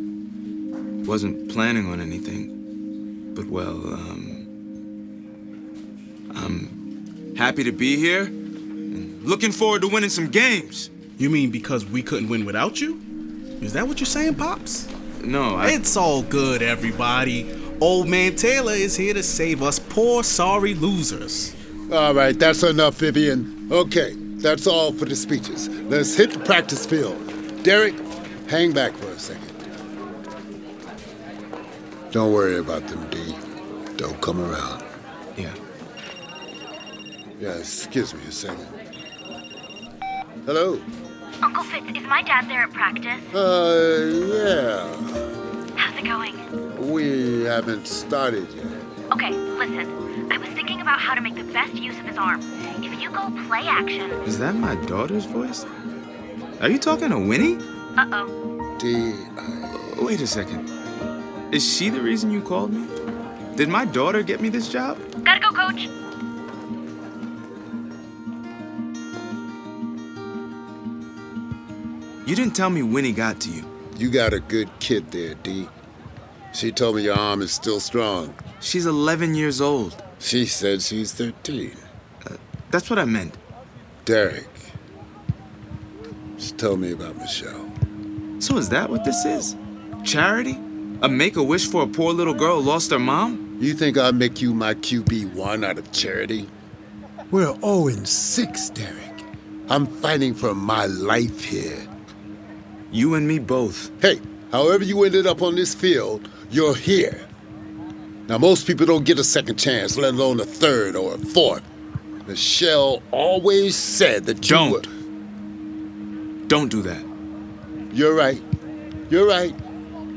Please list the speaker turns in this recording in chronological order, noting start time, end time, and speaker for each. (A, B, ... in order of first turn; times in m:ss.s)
0:01.1-0:02.5 A
0:03.3-0:04.5 A
0:06.3-0:06.8 A
0:07.3-0:08.3 A
0:08.9-0:10.9 A
0:11.2-0:13.0 B
0:13.6-0:14.9 B
0:15.2-0:15.8 A
0:15.6-0:21.5 B
0:21.9-0:29.5 C
0:32.1-0:33.4 C
0:34.0-0:34.8 C
0:37.4-0:38.7 C
0:40.5-0:40.8 C
0:41.4-0:43.2 D
0:43.3-0:45.2 C
0:45.8-0:46.4 D
0:46.8-0:48.7 C
0:49.1-0:54.2 D
0:54.2-0:55.7 A
0:56.6-0:57.6 A
0:58.8-0:59.9 C
0:59.7-1:00.6 A
1:01.5-1:02.9 A
1:03.6-1:05.0 A
1:12.2-1:13.7 A
1:14.0-1:15.7 C
1:16.5-1:18.4 C
1:18.6-1:20.0 A
1:20.2-1:21.8 C
1:22.2-1:23.4 A
1:24.0-1:24.7 C
1:26.4-1:27.7 C
1:28.4-1:33.4 A
1:33.6-1:36.5 C
1:37.3-1:41.9 C
1:42.9-1:43.9 A
1:44.0-1:47.3 C
1:48.3-1:51.6 C
1:52.3-1:54.9 C
1:54.4-1:54.9 A
1:56.5-1:57.1 A
1:57.9-1:58.4 C
1:59.1-1:59.6 C